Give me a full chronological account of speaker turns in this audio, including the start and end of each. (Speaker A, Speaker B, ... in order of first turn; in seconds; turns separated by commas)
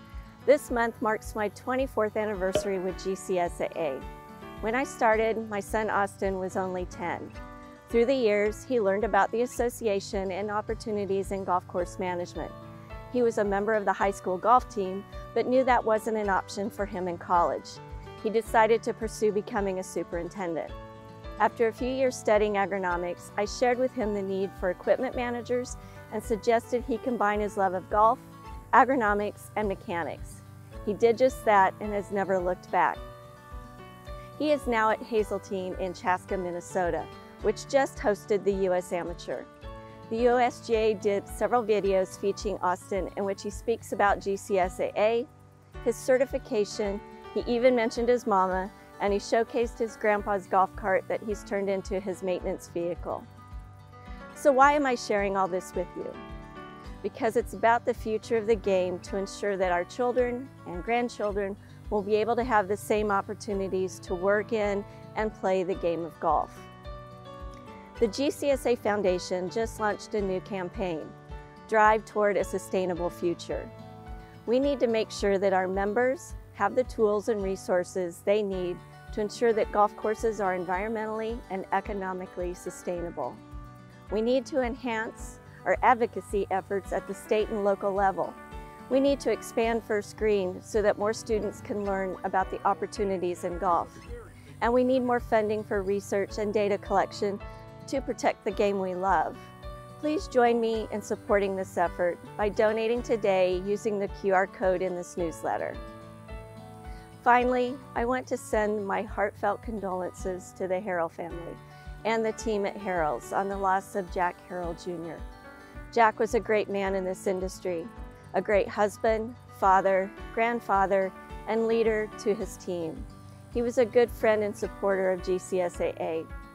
Speaker A: 0.4-4.0, Speaker A: 4.6-12.5, Speaker A: 13.1-20.7, Speaker A: 21.4-33.0, Speaker A: 34.4-39.5, Speaker A: 40.1-45.3, Speaker A: 45.8-53.3, Speaker A: 54.3-56.2, Speaker A: 57.0-66.7, Speaker A: 68.0-71.1, Speaker A: 71.7-73.7, Speaker A: 74.5-83.4, Speaker A: 84.1-88.4, Speaker A: 88.9-94.1, Speaker A: 94.6-105.8, Speaker A: 107.2-115.2, Speaker A: 115.9-126.3